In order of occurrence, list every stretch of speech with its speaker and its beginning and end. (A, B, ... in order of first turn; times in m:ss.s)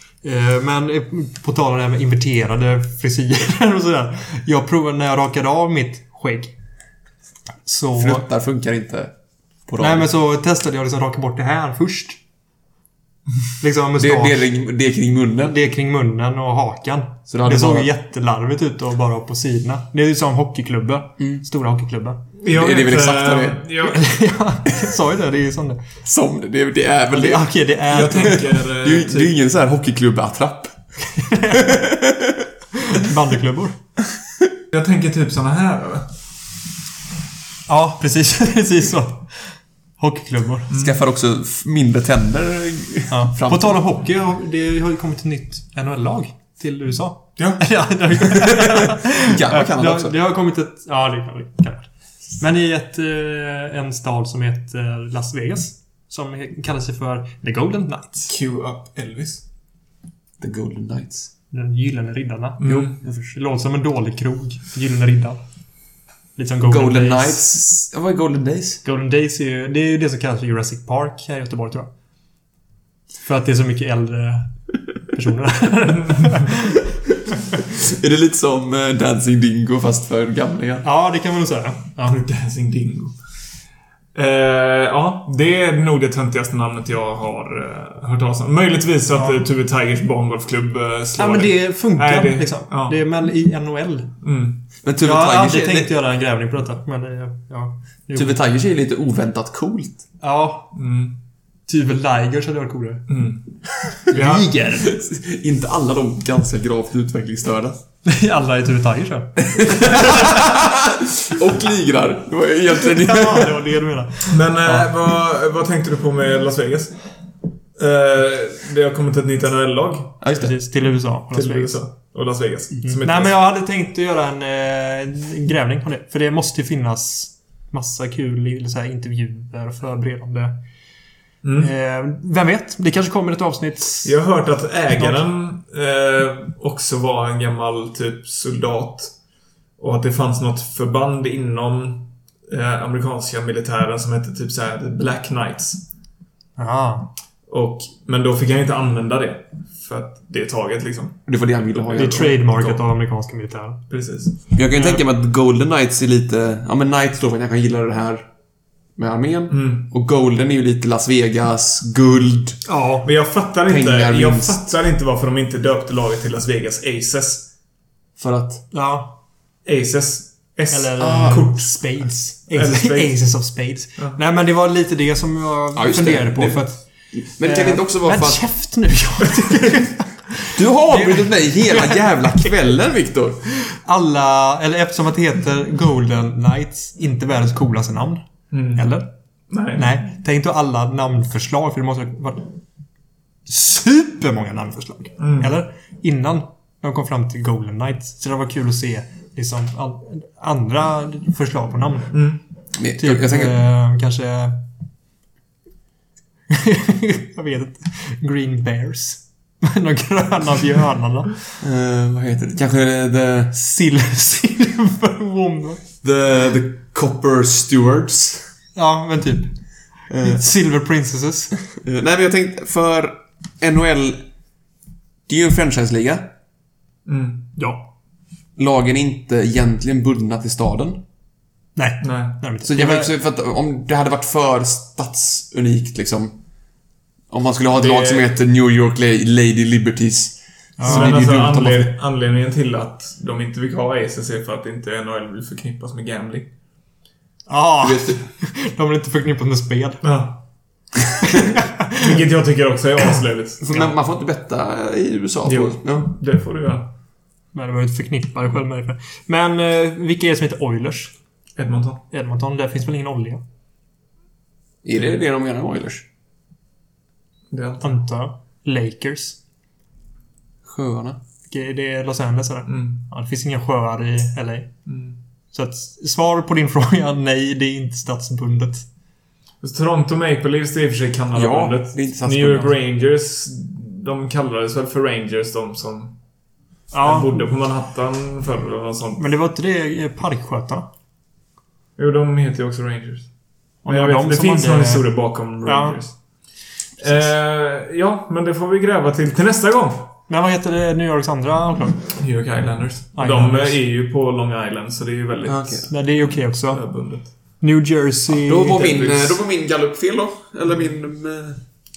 0:00.2-0:06.5 A
0:07.7-0:08.2 A
0:08.0-0:09.1 B
0:09.7-0:10.1 B
0:09.8-0:12.2 A
0:13.6-0:14.5 A
0:14.0-0:15.6 B
0:15.4-0:22.2 A
0:17.3-0:17.9 B
0:22.4-0:24.0 C
0:22.5-0:23.7 B
0:23.8-0:25.8 A
0:26.0-0:27.5 B
0:27.1-0:28.5 A
0:27.9-0:29.3 C
0:28.2-0:30.8 B
0:31.1-0:31.9 A
0:31.5-0:32.5 B
0:32.7-0:33.8 A
0:34.7-0:36.1 C
0:37.7-0:40.7 A
0:40.7-0:41.0 C
0:40.7-0:43.8 B
0:43.1-0:58.3 A
0:48.2-0:50.2 B
0:58.3-0:59.4 C
1:00.4-1:01.3 B
1:01.5-1:05.4 A
1:02.6-1:03.0 C
1:02.6-1:03.4 B
1:06.4-1:07.4 A
1:06.6-1:08.8 B
1:08.8-1:11.9 A
1:13.2-1:14.6 A
1:15.1-1:16.8 A
1:17.6-1:20.9 B
1:20.8-1:22.2 A
1:22.0-1:23.2 C
1:24.2-1:33.0 C
1:29.1-1:29.4 A
1:31.2-1:34.1 A
1:34.2-1:34.6 C
1:34.8-1:35.9 B
1:35.0-1:38.4 A
1:38.1-1:40.0 B
1:40.2-1:40.7 A
1:40.7-1:41.2 C
1:41.7-1:43.1 A
1:43.1-1:43.4 C
1:43.9-1:47.8 B
1:44.1-1:45.0 A
1:48.0-1:50.5 A
1:49.4-1:53.7 B
1:52.8-1:54.9 A
1:54.3-1:57.0 C
1:57.8-2:00.2 C
2:00.2-2:00.6 B
2:00.3-2:01.8 A
2:01.3-2:03.4 C
2:02.8-2:10.6 A
2:11.4-2:11.7 C
2:11.6-2:14.2 A
2:14.0-2:19.1 C
2:14.9-2:15.2 A
2:19.8-2:25.9 C
2:26.6-2:27.1 A
2:27.5-2:32.8 C
2:31.3-2:32.3 B
2:32.0-2:33.8 A
2:33.9-2:35.0 C
2:34.6-2:38.3 B
2:39.0-2:42.6 B
2:39.5-2:39.9 C
2:42.7-2:43.1 A
2:43.0-2:47.5 C
2:43.7-2:44.7 B
2:48.2-2:48.6 B
2:48.7-2:49.2 A
2:49.6-2:51.8 C
2:50.7-2:56.9 A
2:51.0-2:51.5 B
2:52.5-2:53.2 C
2:55.8-2:58.4 B
2:57.4-3:02.5 A
3:00.5-3:03.4 B
3:03.6-3:08.2 A
3:08.5-3:09.0 C
3:08.8-3:09.1 A
3:09.5-3:10.0 C
3:09.8-3:12.5 A
3:13.5-3:22.1 A
3:15.2-3:15.6 C
3:22.1-3:22.4 C
3:22.8-3:23.6 B
3:23.0-3:24.6 A
3:26.5-3:31.4 A
3:31.6-3:33.6 B
3:33.5-3:35.8 A
3:36.0-3:38.4 B
3:38.8-3:39.5 A
3:40.1-3:40.5 B
3:40.2-3:41.5 A
3:41.7-3:44.3 B
3:45.3-3:46.3 B
3:47.1-3:47.5 C
3:47.6-3:47.8 A
3:48.6-3:51.0 B
3:51.8-3:53.1 A
3:52.0-3:52.4 C
3:52.6-3:56.4 B
3:57.3-4:01.9 B
3:57.7-3:58.3 C
4:00.8-4:01.2 A
4:00.8-4:06.5 C
4:07.5-4:10.0 A
4:07.8-4:08.2 B
4:10.0-4:10.4 C
4:11.2-4:12.2 A
4:11.9-4:13.6 C
4:13.6-4:16.1 B
4:13.7-4:14.0 A
4:15.4-4:16.9 C
4:17.5-4:21.1 A
4:21.6-4:22.0 C
4:22.1-4:23.4 A
4:24.8-4:26.1 B
4:27.5-4:28.0 C
4:27.8-4:29.4 A
4:30.6-4:31.2 B
4:31.5-4:34.7 A
4:32.7-4:33.0 C
4:34.9-4:35.2 C
4:35.5-4:38.9 A
4:39.6-4:46.2 C
4:41.3-4:42.8 B
4:46.9-4:47.4 A
4:47.0-4:49.3 C
4:49.2-4:50.9 A
4:52.0-4:53.3 C
4:53.8-4:55.1 A
4:53.9-4:56.2 C
4:55.6-4:56.0 A
4:57.0-5:00.1 C
5:00.3-5:02.0 A
5:02.2-5:06.1 C
5:03.2-5:03.8 A
5:05.5-5:05.9 B
5:05.9-5:06.8 A
5:06.7-5:07.3 C
5:07.6-5:09.0 A
5:08.3-5:11.6 B
5:08.8-5:09.4 C